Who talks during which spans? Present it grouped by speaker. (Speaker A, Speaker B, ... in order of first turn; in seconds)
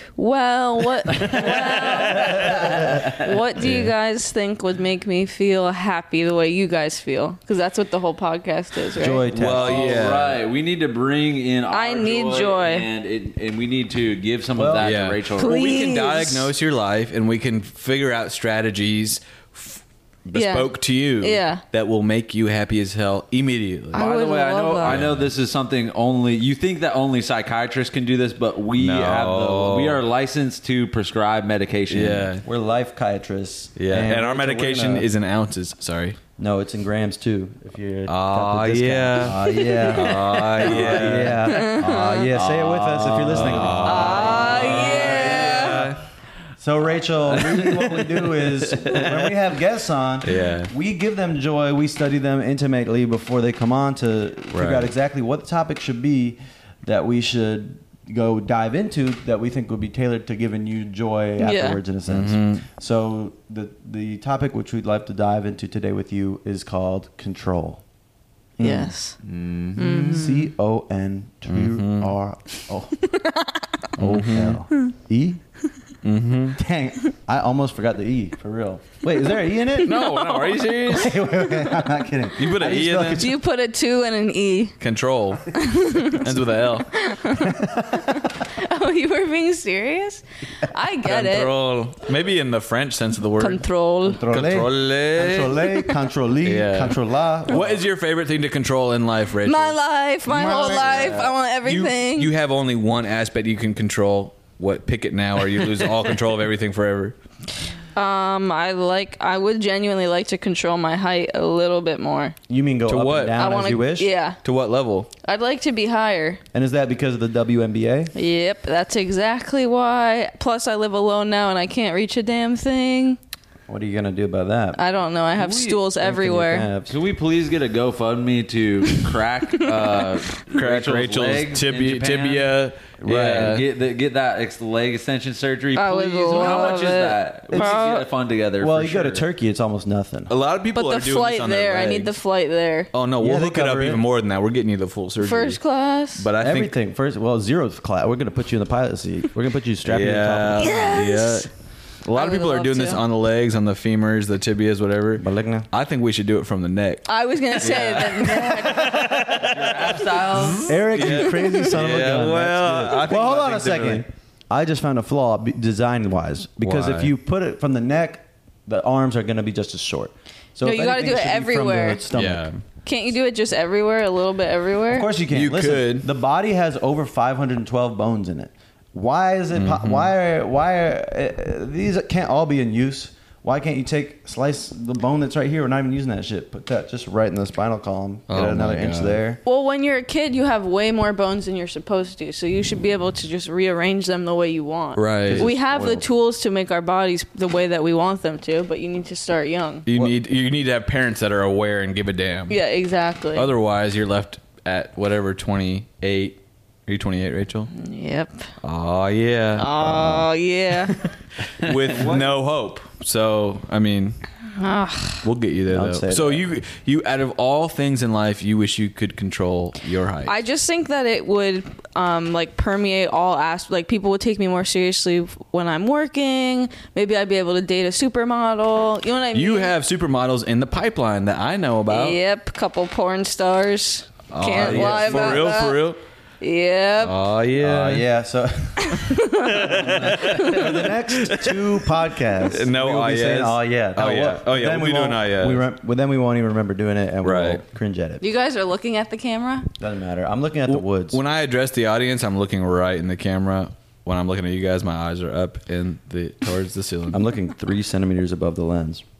Speaker A: 0.2-9.2, 11.7-12.9, 15.4-16.5, 20.3-21.6, 23.9-25.0, 40.6-42.3, 43.7-45.9, 61.4-61.8, 68.6-69.2, 69.8-70.5, 73.1-73.6, 79.8-80.8, 83.2-84.8, 85.5-86.2, 87.0-91.5, 93.4-94.2, 99.4-102.3, 107.9-112.3, 113.3-114.4, 115.2-116.4, 118.1-123.2, 124.8-126.7, 135.8-138.1, 140.7-142.9, 145.2-146.3, 150.6-151.5, 152.1-153.0, 157.1-159.2, 161.1-161.6, 170.6-172.0, 172.8-175.1, 189.4-199.9, 202.5-203.5, 207.7-208.5, 209.6-211.0, 214.6-215.2, 220.2-229.7, 231.9-237.2, 238.9-240.9, 248.2-249.7
Speaker B: 1.4-2.4, 3.6-3.9, 9.2-10.4, 14.8-24.1, 24.8-25.3, 28.8-30.0, 31.9-32.4, 33.8-36.2, 38.1-46.0, 50.2-50.7, 54.5-54.9, 62.1-62.6, 71.5-72.1, 74.0-74.6, 76.0-76.6, 79.8-81.1, 82.4-83.2, 84.8-87.0, 91.0-93.6, 94.3-95.8, 96.4-99.8, 100.3-107.2, 112.9-113.4, 114.4-115.1, 130.5-133.6, 140.3-142.2, 142.9-145.6, 146.2-146.7, 149.8-151.5, 152.1-157.1, 157.6-164.1, 166.6-167.1, 172.1-172.6, 175.3-176.1, 179.5-180.1, 188.3-189.2, 194.9-195.5, 199.9-202.6, 203.3-207.7, 208.6-210.3, 210.9-214.2, 215.2-220.4, 229.3-232.2, 234.3-236.0, 237.0-238.1, 239.4-241.4, 242.5-245.6, 247.2-247.6, 250.7-257.2
Speaker C: 2.2-3.2, 9.4-15.7, 23.9-32.3, 69.2-70.1, 125.4-125.8, 126.9-132.5, 133.1-139.3, 159.4-160.6
Speaker D: 2.4-2.8, 8.9-10.0, 14.5-14.9, 32.4-35.1, 36.4-46.0, 46.6-67.8, 68.6-68.9, 70.0-73.0, 74.0-75.4, 76.5-80.0, 80.8-83.3, 94.0-97.8, 100.3-101.3, 112.5-114.1, 116.5-118.1, 123.7-124.8, 126.0-126.9, 133.0-133.6, 137.5-138.0, 138.6-140.3, 143.2-144.0, 146.4-151.0, 155.2-155.7, 160.6-172.5, 174.9-189.4, 195.2-196.1, 211.9-212.2, 215.7-216.5, 234.5-235.7, 237.6-248.2, 249.8-251.2, 257.1-259.0